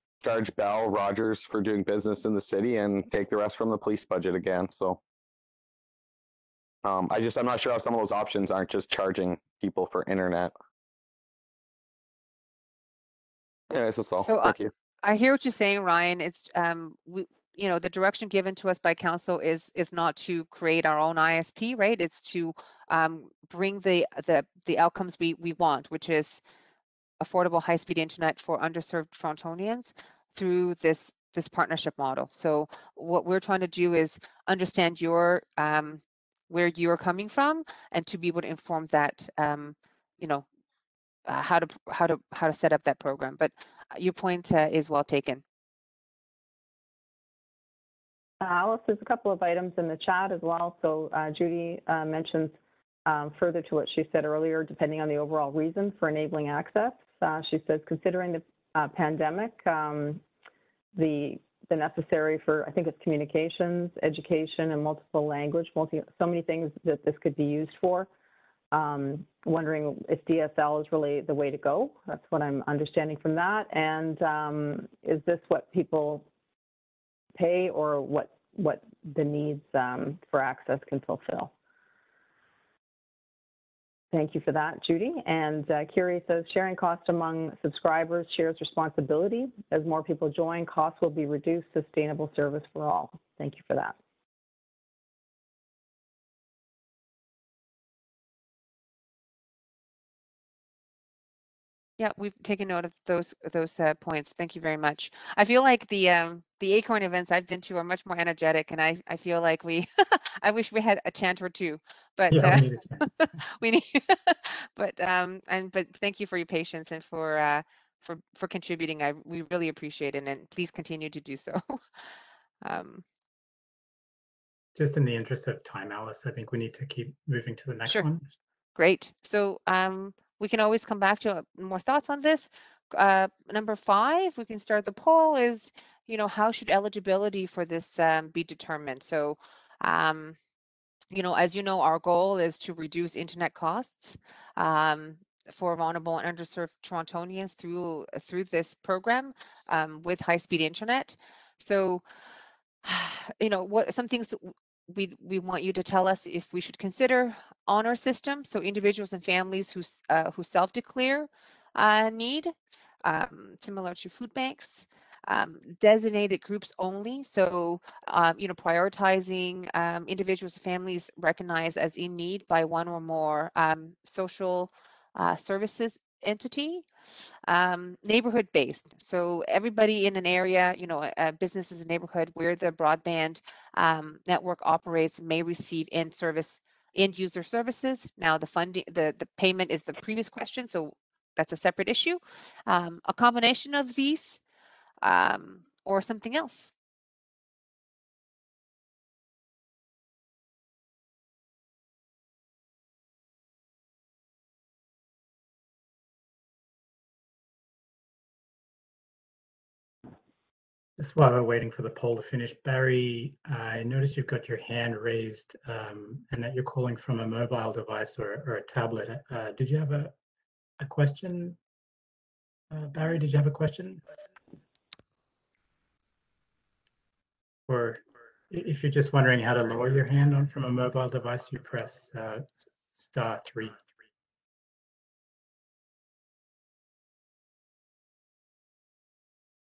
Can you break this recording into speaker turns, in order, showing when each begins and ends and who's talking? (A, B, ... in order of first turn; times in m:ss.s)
0:00.2-0:05.0 A
0:06.8-0:10.5 A
0:13.7-0:14.7 A
0:14.2-0:26.4 B
0:27.2-0:40.4 B
0:41.3-0:45.4 B
0:48.4-0:52.6 C
0:53.1-1:00.2 C
1:00.9-1:08.1 C
1:08.7-1:16.3 C
1:17.4-1:21.5 C
1:24.1-1:34.0 C
1:42.0-2:01.8 B
1:52.3-1:53.1 D
2:02.6-2:03.0 B
2:04.8-2:08.3 D
2:08.8-2:20.4 B
2:21.1-2:32.0 B
2:32.8-2:56.9 B
2:57.5-3:14.4 B
3:15.0-3:16.7 B
3:31.0-3:40.1 D
3:40.8-3:41.6 D
3:42.7-3:44.0 D
3:47.7-3:53.8 D